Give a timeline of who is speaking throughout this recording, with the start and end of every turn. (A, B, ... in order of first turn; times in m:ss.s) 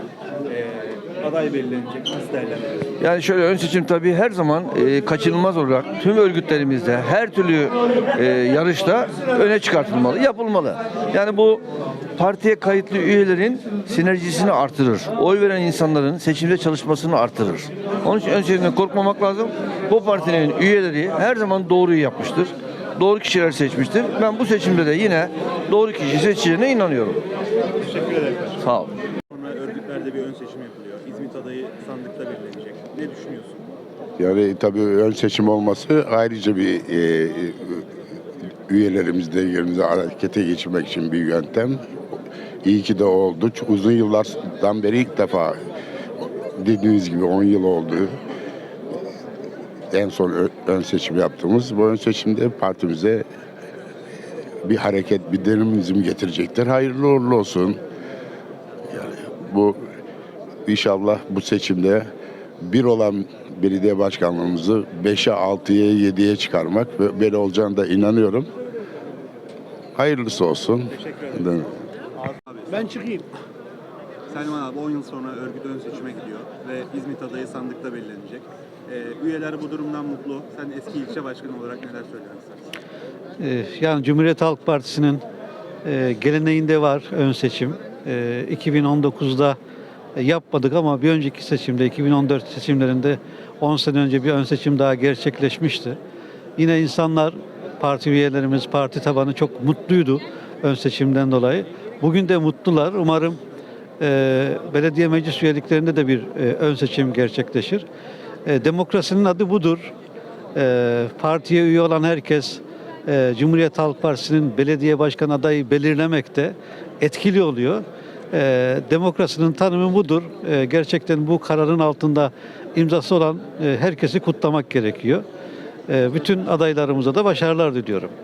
0:00.5-0:02.9 A
0:03.0-0:11.6 B
0:12.2-0:27.2 B
0:27.8-0:28.7 A
0:28.6-0:28.9 B
0:29.3-0:33.6 A
0:34.2-0:37.8 C
0:38.7-0:41.8 C
0:42.6-0:45.6 C
0:46.6-0:48.2 C
0:49.9-0:53.2 C
0:54.6-0:57.8 C
0:58.9-0:59.8 C
1:00.7-1:02.1 C
1:02.6-1:08.5 C
1:10.0-1:11.7 C
1:10.9-1:13.2 A
1:14.3-1:22.7 A
1:23.4-1:25.2 D
1:25.8-1:29.6 D
1:30.2-1:36.0 D
1:36.6-1:43.4 D
1:44.0-1:47.8 D
1:48.5-1:49.9 D
1:50.6-2:05.2 D
2:05.9-2:08.1 D